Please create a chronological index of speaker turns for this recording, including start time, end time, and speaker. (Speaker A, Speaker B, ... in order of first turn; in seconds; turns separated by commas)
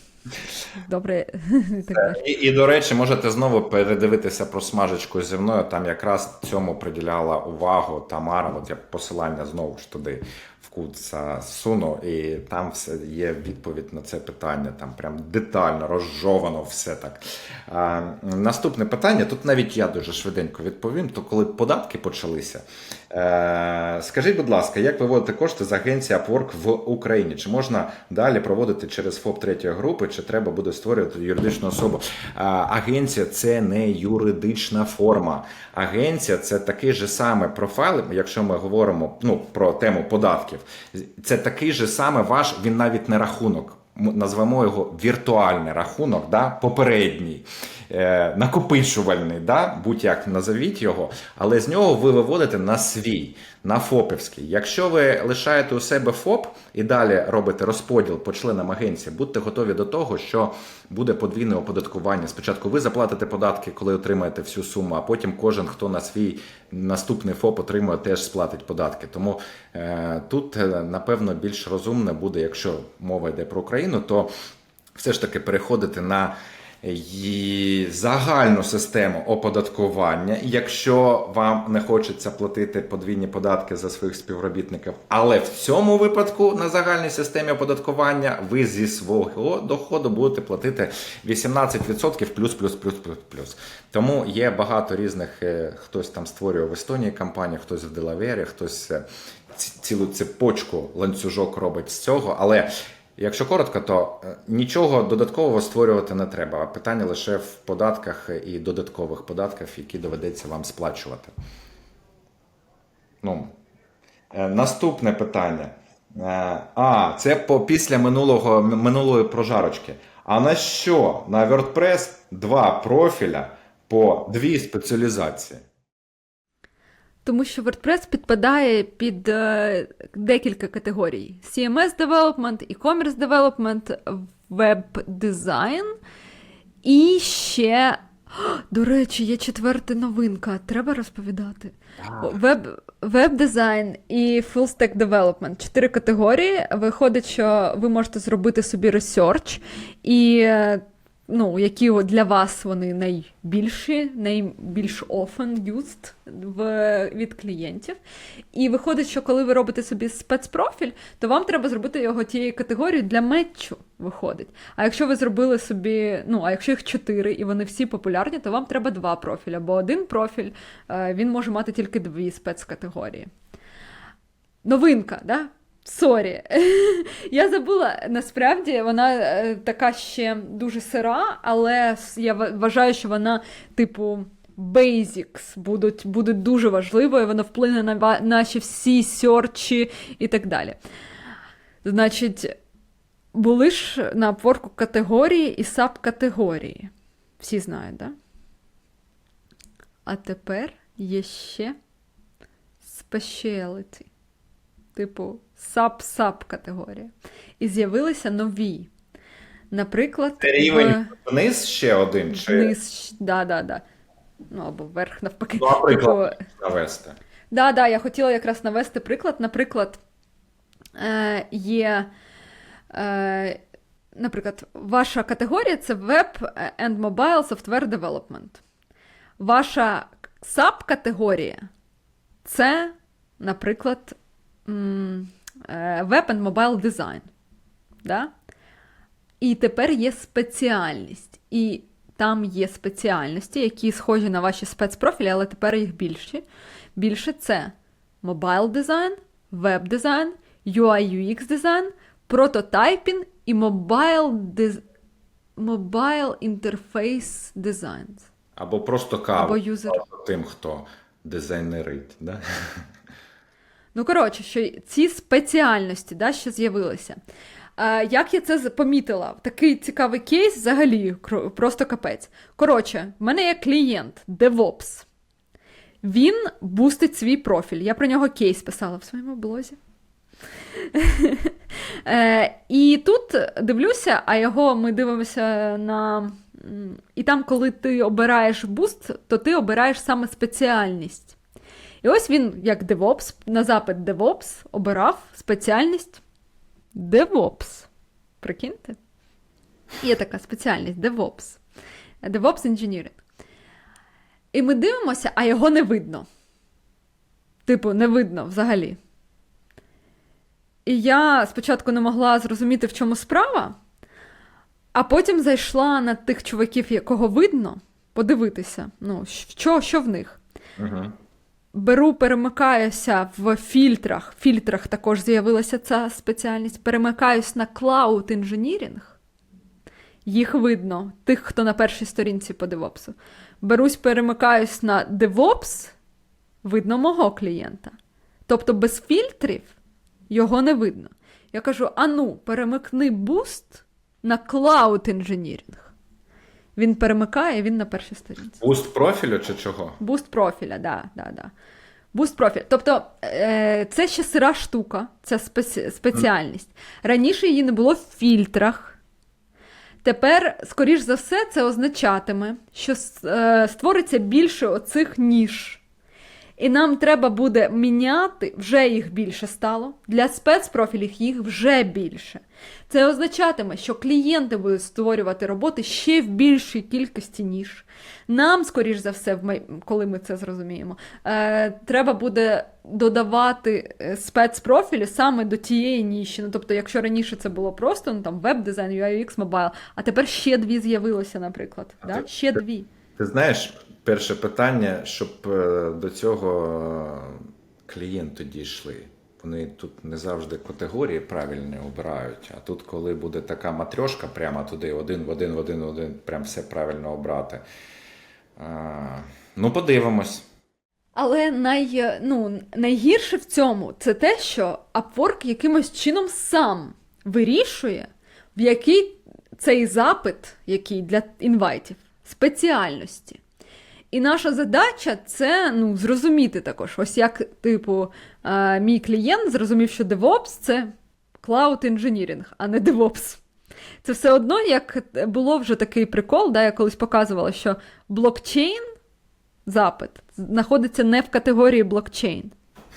Speaker A: 0.8-2.2, Speaker B: 1.9-74.3, Speaker B: 74.9-111.3, Speaker B: 113.2-113.5, Speaker B: 114.3-125.6, Speaker A: 127.2-136.0, Speaker A: 136.8-158.0, Speaker B: 142.0-142.3, Speaker A: 158.5-173.3, Speaker A: 174.6-190.8, Speaker A: 191.8-192.5, Speaker A: 193.3-198.1, Speaker A: 200.0-201.8, Speaker A: 202.8-204.1, Speaker A: 204.9-208.9, Speaker A: 209.7-211.1, Speaker B: 210.4-212.7, Speaker A: 212.3-213.8, Speaker A: 214.5-216.4, Speaker B: 215.6-217.2, Speaker A: 217.5-220.0, Speaker A: 220.9-222.1, Speaker A: 222.9-223.6, Speaker A: 224.1-228.6, Speaker A: 229.4-231.7, Speaker A: 232.4-237.3, Speaker A: 238.0-238.3, Speaker A: 239.4-246.4, Speaker A: 246.9-254.8, Speaker A: 255.6-258.3, Speaker B: 258.6-262.8, Speaker A: 259.3-260.0, Speaker A: 263.9-267.2, Speaker A: 267.8-275.1, Speaker A: 276.0-279.8, Speaker A: 280.7-291.4, Speaker A: 292.0-296.2, Speaker A: 296.9-297.9, Speaker A: 298.4-299.0, Speaker A: 300.0-301.6, Speaker A: 302.2-303.2, Speaker A: 304.5-306.2, Speaker A: 307.6-309.0, Speaker A: 310.9-313.8, Speaker A: 314.9-320.4, Speaker B: 320.8-321.1, Speaker A: 321.7-329.2, Speaker A: 330.2-335.9, Speaker A: 336.6-337.9, Speaker A: 338.5-339.7, Speaker A: 340.3-345.9, Speaker A: 346.8-348.6, Speaker B: 348.6-350.0, Speaker A: 350.0-351.5, Speaker A: 352.1-359.0, Speaker A: 360.0-365.8, Speaker A: 366.6-392.9, Speaker B: 392.0-392.6, Speaker B: 393.2-407.6, Speaker B: 408.6-410.4, Speaker A: 411.1-423.4, Speaker A: 424.1-433.4, Speaker A: 434.0-438.9, Speaker A: 439.6-442.5